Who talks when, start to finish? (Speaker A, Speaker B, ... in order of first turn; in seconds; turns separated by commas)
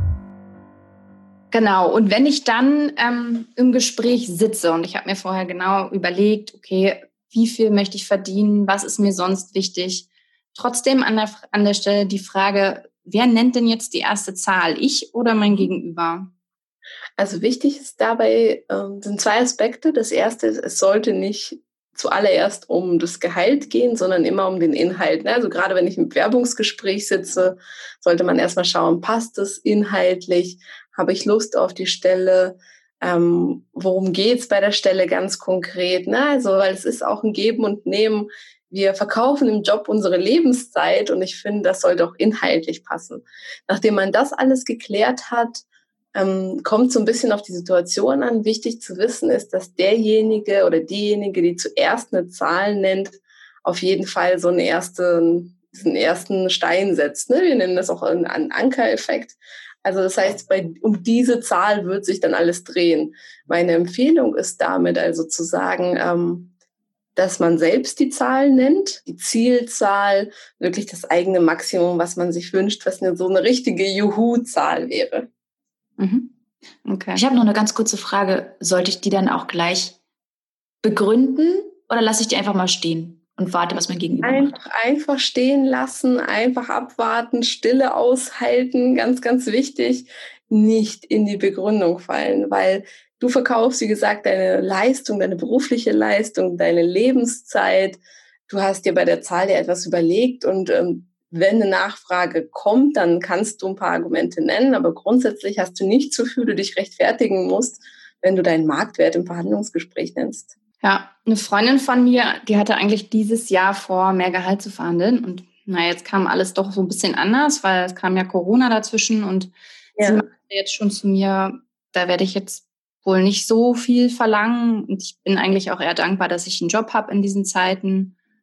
Speaker A: 1.5-16.3, Speaker B: 17.2-66.5, Speaker B: 67.2-75.3, Speaker A: 76.0-76.3, Speaker A: 76.8-77.2, Speaker C: 77.2-80.0, Speaker C: 80.8-84.6, Speaker B: 84.2-110.5, Speaker A: 110.8-128.1, Speaker B: 120.0-120.2